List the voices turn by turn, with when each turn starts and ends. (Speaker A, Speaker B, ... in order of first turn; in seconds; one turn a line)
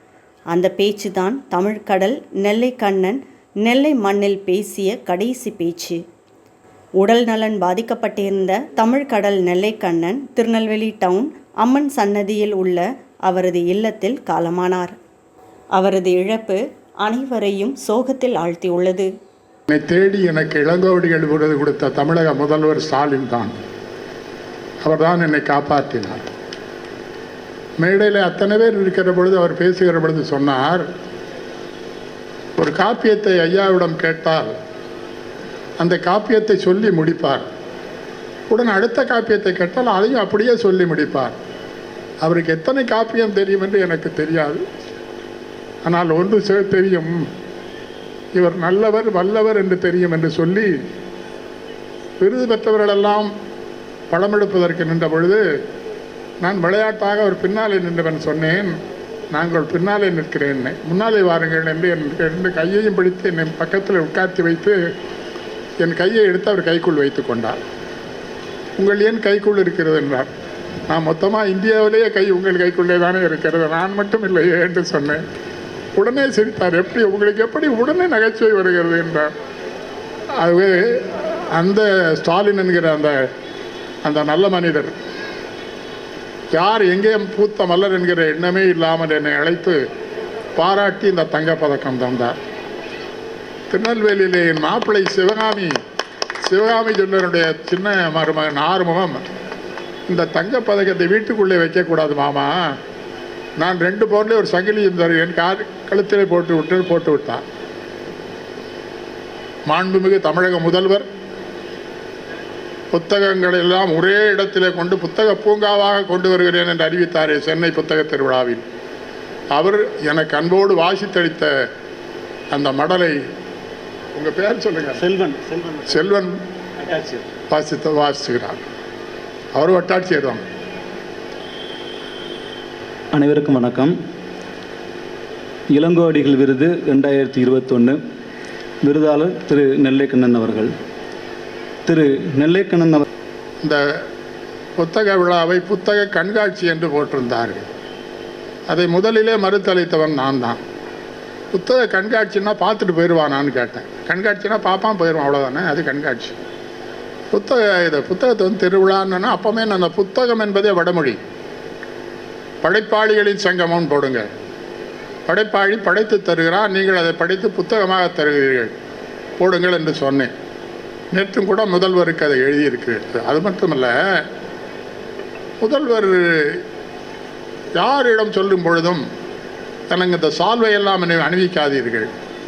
Speaker A: 0.5-6.0
Speaker A: 7.0-14.9
Speaker A: 15.8-19.1
Speaker B: 19.7-23.5
Speaker B: 24.8-26.3
Speaker B: 27.8-30.9
Speaker B: 32.6-34.5
Speaker B: 35.8-37.5
Speaker B: 38.5-41.4
Speaker B: 42.2-44.6
Speaker B: 45.8-47.2
Speaker B: 48.4-50.7
Speaker B: 52.2-53.3
Speaker B: 54.1-55.4
Speaker B: 56.4-58.8
Speaker B: 59.3-64.8
Speaker B: 65.8-67.6
Speaker B: 68.8-70.3
Speaker B: 70.9-75.2
Speaker B: 76.0-79.3
Speaker B: 80.4-83.2
Speaker B: 84.0-85.0
Speaker B: 86.5-89.8
Speaker B: 90.6-92.4
Speaker B: 93.7-95.7
Speaker B: 96.5-99.2
Speaker B: 100.1-102.6
Speaker B: 103.6-107.4
Speaker B: 109.7-111.1
Speaker B: 112.9-118.6
Speaker B: 119.5-121.5
Speaker B: 122.5-123.2
Speaker B: 124.2-125.0
Speaker C: 125.0-126.0
Speaker B: 125.9-126.4
Speaker C: 126.8-127.2
Speaker B: 127.5-128.6
Speaker B: 129.6-130.4
Speaker C: 133.1-133.9
Speaker C: 135.7-138.0
Speaker C: 138.8-140.7
Speaker C: 141.9-143.1
Speaker B: 144.8-147.7
Speaker B: 148.7-150.6
Speaker B: 151.5-156.4
Speaker B: 157.3-161.2
Speaker B: 162.6-164.3
Speaker B: 165.3-168.7
Speaker B: 169.4-170.3
Speaker B: 171.1-174.2
Speaker B: 175.6-176.6
Speaker B: 177.8-179.0
Speaker B: 179.9-182.1